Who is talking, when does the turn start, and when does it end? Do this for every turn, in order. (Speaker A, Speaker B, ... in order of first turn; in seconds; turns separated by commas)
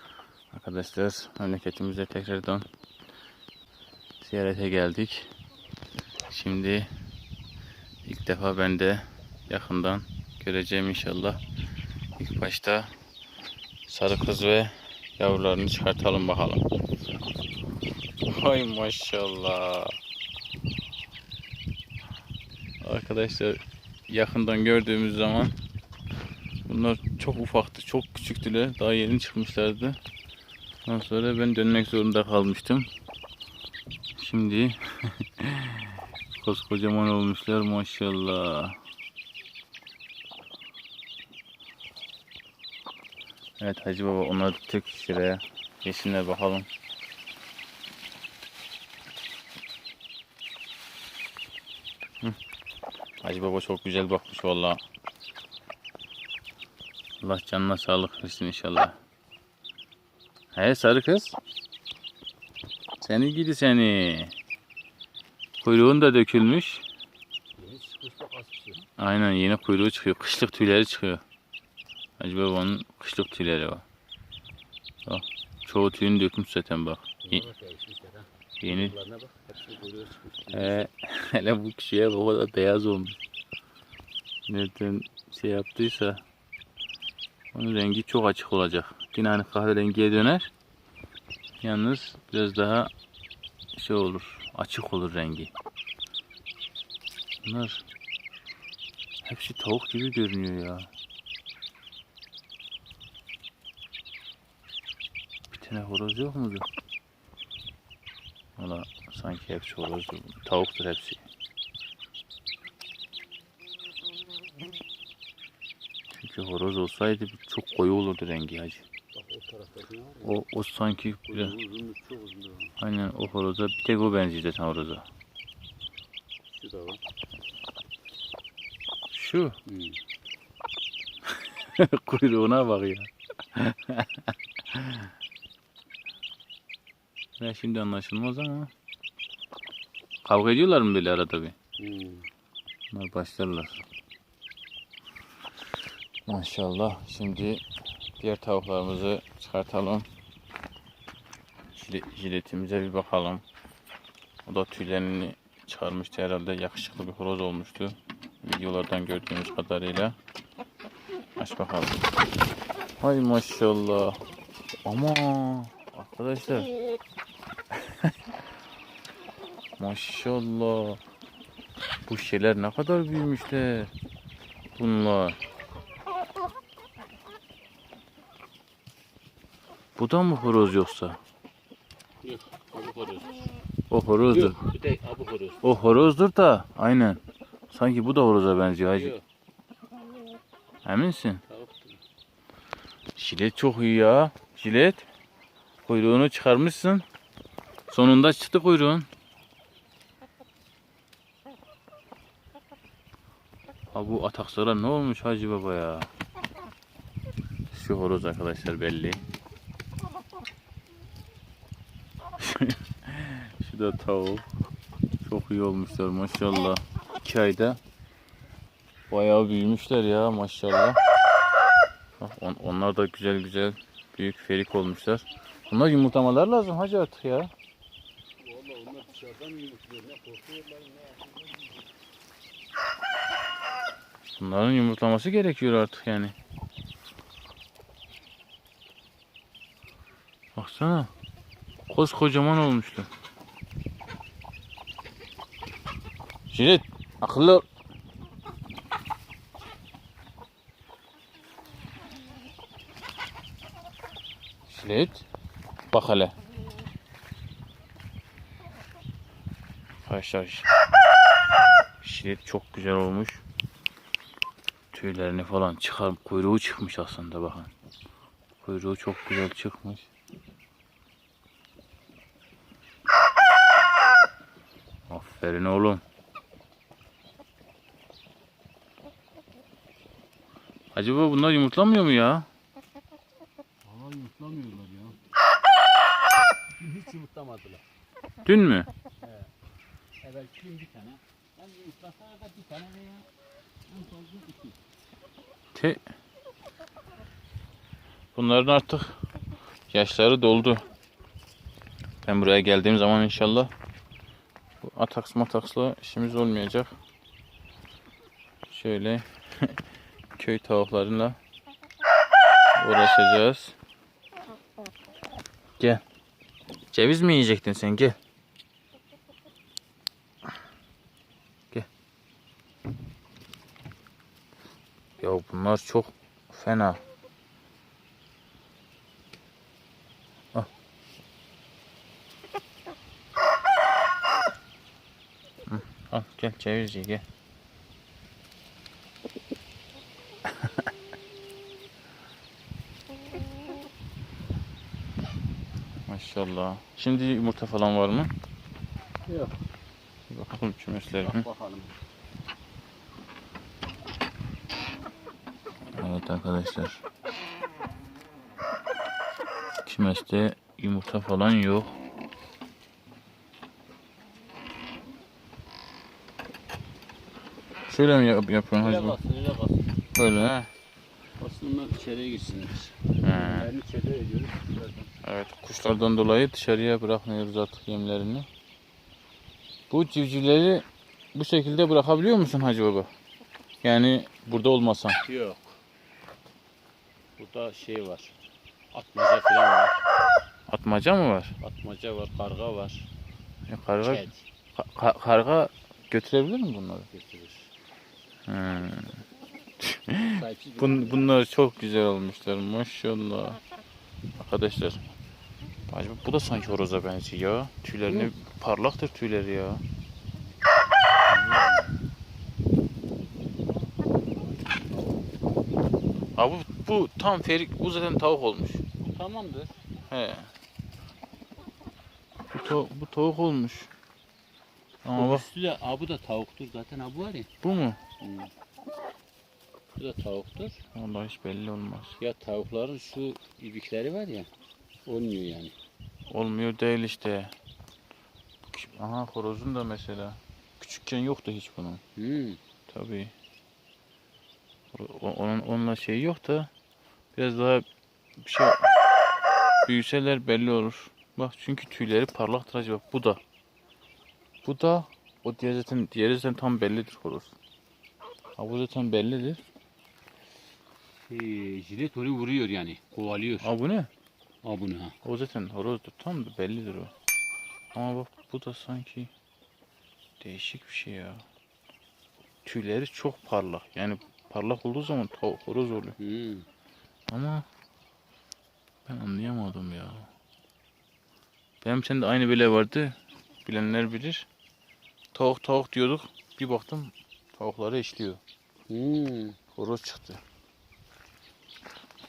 Speaker A: 0.5-2.7, Speaker A: 4.2-5.3, Speaker A: 6.3-6.9, Speaker A: 8.0-11.4, Speaker A: 12.2-12.9, Speaker A: 13.9-16.6, Speaker A: 18.2-19.9, Speaker A: 22.8-25.5, Speaker A: 26.6-30.0, Speaker A: 30.8-32.9, Speaker A: 34.2-38.8, Speaker A: 43.6-46.7, Speaker A: 53.2-54.8, Speaker A: 57.2-58.9, Speaker A: 60.5-61.4, Speaker A: 63.0-64.3, Speaker A: 65.6-66.8, Speaker B: 67.6-68.8, Speaker A: 69.0-71.2, Speaker A: 72.2-73.8, Speaker A: 75.0-77.4, Speaker B: 77.2-80.9, Speaker A: 78.6-79.0, Speaker A: 80.5-83.2, Speaker A: 84.5-86.2, Speaker A: 87.5-90.5, Speaker A: 91.6-92.9, Speaker A: 93.7-95.5, Speaker A: 97.4-97.8, Speaker A: 99.2-100.9, Speaker A: 105.5-106.7, Speaker A: 108.6-111.2, Speaker A: 116.1-118.8, Speaker B: 119.1-120.4, Speaker A: 120.2-121.5, Speaker B: 121.3-122.7, Speaker A: 122.8-125.0, Speaker B: 126.5-127.0, Speaker A: 129.1-129.6, Speaker B: 129.7-130.0, Speaker A: 131.3-135.1, Speaker A: 137.4-138.7, Speaker A: 140.2-141.5, Speaker B: 141.8-142.3, Speaker A: 142.9-143.8, Speaker A: 146.3-147.6, Speaker A: 148.2-150.1, Speaker A: 151.7-153.4, Speaker A: 154.4-160.2, Speaker A: 161.4-162.0, Speaker A: 163.0-164.2, Speaker A: 164.8-166.7, Speaker A: 169.8-171.0, Speaker A: 172.1-173.9, Speaker A: 174.8-175.4, Speaker A: 180.0-181.2, Speaker B: 182.2-183.5, Speaker A: 183.9-184.6, Speaker B: 184.3-185.6, Speaker A: 185.6-189.1, Speaker B: 188.9-189.2, Speaker A: 190.8-191.4, Speaker B: 191.5-192.0, Speaker A: 193.2-195.0, Speaker A: 195.8-197.0, Speaker A: 197.9-199.1, Speaker A: 203.9-206.1, Speaker A: 207.7-209.2, Speaker A: 212.4-214.4, Speaker A: 215.2-217.8, Speaker A: 219.1-221.0, Speaker A: 222.2-227.5, Speaker B: 228.4-231.8, Speaker A: 234.4-236.3, Speaker A: 240.5-241.1, Speaker A: 241.9-243.1, Speaker A: 246.5-247.6, Speaker A: 254.7-255.2, Speaker A: 255.9-256.3, Speaker A: 260.0-260.7, Speaker A: 262.0-263.4, Speaker A: 264.9-267.7, Speaker A: 268.6-270.1, Speaker A: 275.1-276.0, Speaker A: 280.9-282.5, Speaker B: 283.8-285.2, Speaker B: 286.8-287.8, Speaker A: 288.4-288.9, Speaker B: 289.2-289.5, Speaker B: 290.2-293.3, Speaker B: 293.9-294.8, Speaker A: 295.7-296.0, Speaker A: 298.3-299.2, Speaker A: 299.9-300.8, Speaker A: 302.2-303.7, Speaker A: 304.8-306.9, Speaker A: 308.7-309.8, Speaker A: 310.4-311.4, Speaker A: 312.8-313.7, Speaker A: 316.9-318.1, Speaker A: 325.2-327.0, Speaker A: 335.7-337.2, Speaker A: 346.1-348.3, Speaker B: 349.3-349.5, Speaker A: 350.3-351.4, Speaker B: 351.2-351.9, Speaker A: 356.0-357.0, Speaker A: 359.9-361.9, Speaker A: 367.9-369.1, Speaker B: 368.8-369.9, Speaker A: 370.1-370.7, Speaker B: 371.4-375.1, Speaker A: 373.2-373.7, Speaker A: 375.2-378.5, Speaker A: 379.9-383.1, Speaker A: 383.8-385.2, Speaker B: 385.2-385.7, Speaker B: 387.4-388.3, Speaker B: 388.9-390.0, Speaker A: 390.7-391.5, Speaker B: 391.6-393.1, Speaker A: 393.7-397.1, Speaker B: 394.0-394.4, Speaker B: 397.1-397.7, Speaker A: 398.5-399.2, Speaker A: 399.8-403.6, Speaker B: 400.3-401.2, Speaker A: 404.4-405.0, Speaker A: 405.9-409.8, Speaker B: 411.2-412.0, Speaker B: 414.7-415.2, Speaker A: 416.4-418.8, Speaker B: 419.0-419.8, Speaker A: 420.1-420.5, Speaker A: 422.5-423.9, Speaker A: 425.0-425.4, Speaker B: 425.1-427.5, Speaker A: 427.6-428.0, Speaker B: 428.2-428.5, Speaker B: 430.0-430.8, Speaker A: 430.9-432.2, Speaker B: 432.2-434.5, Speaker B: 435.1-435.8, Speaker A: 436.3-437.5, Speaker A: 438.6-442.0, Speaker B: 442.1-442.6, Speaker A: 442.9-443.3, Speaker A: 444.9-446.7, Speaker A: 447.3-447.8, Speaker A: 448.4-448.9, Speaker A: 449.8-453.4, Speaker A: 454.6-457.5, Speaker A: 458.6-459.6, Speaker B: 461.3-463.7, Speaker A: 463.6-464.1, Speaker B: 464.6-465.1, Speaker A: 465.2-467.1, Speaker A: 467.9-469.3, Speaker A: 470.4-471.4, Speaker A: 472.6-476.1, Speaker B: 476.2-476.7, Speaker A: 477.3-477.6, Speaker A: 479.1-480.3, Speaker A: 481.8-484.5, Speaker A: 485.3-488.4, Speaker B: 488.9-489.6, Speaker A: 489.7-490.4